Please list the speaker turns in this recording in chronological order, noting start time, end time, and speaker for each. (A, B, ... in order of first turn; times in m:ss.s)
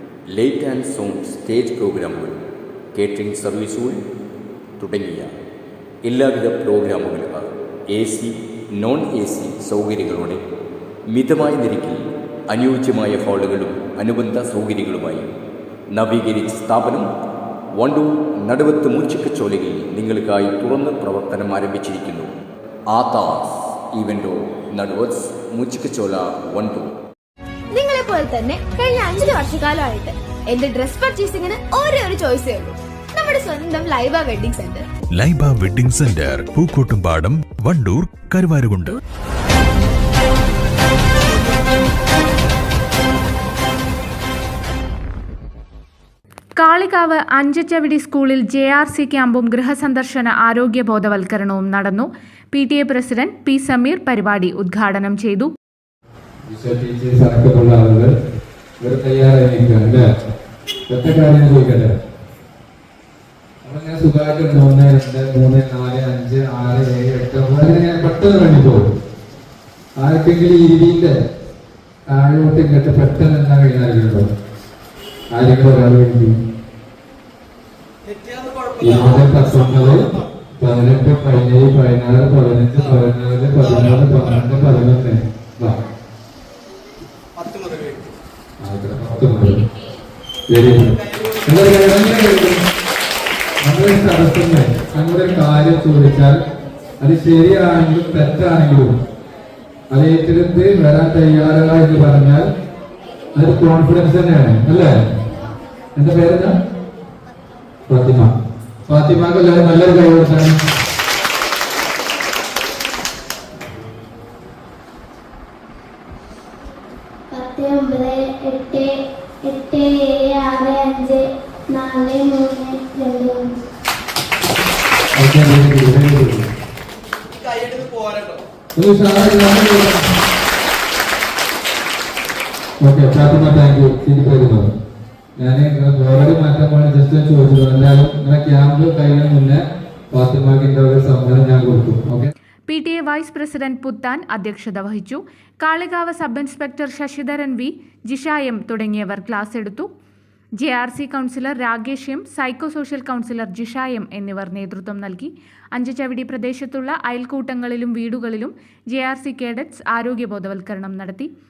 0:00.3-0:04.0 A
0:04.8-0:05.3 A
0:06.0-0:10.4 A
0:11.1-0:15.3 A
0:15.9-0:17.1 A
0:17.8-0:22.3 A
0:22.9-0:26.9 A
0:27.7-0:34.9 B
0:35.1-0:39.0 C
0:46.6-0:55.5 D
0:56.5-0:58.1 E
0:58.8-1:00.1 E
1:00.9-1:01.9 E
1:03.6-1:08.8 E
1:10.0-1:11.1 E
1:12.1-1:14.3 E
1:15.3-1:16.4 E
1:18.8-1:25.8 E
1:28.6-1:29.6 E
1:30.5-1:32.6 E
1:33.6-1:36.4 E
1:37.0-1:39.0 E
1:39.9-1:42.5 E
1:43.4-1:44.9 E
1:46.0-1:46.5 E
1:47.9-1:48.3 E
1:48.9-1:50.6 E
1:57.3-1:58.9 F
1:59.4-2:03.6 F
2:05.2-2:06.5 E
2:08.8-2:10.1 E
2:12.8-2:14.7 E
2:15.4-2:22.3 E
2:22.7-2:29.9 D
2:30.6-2:41.3 D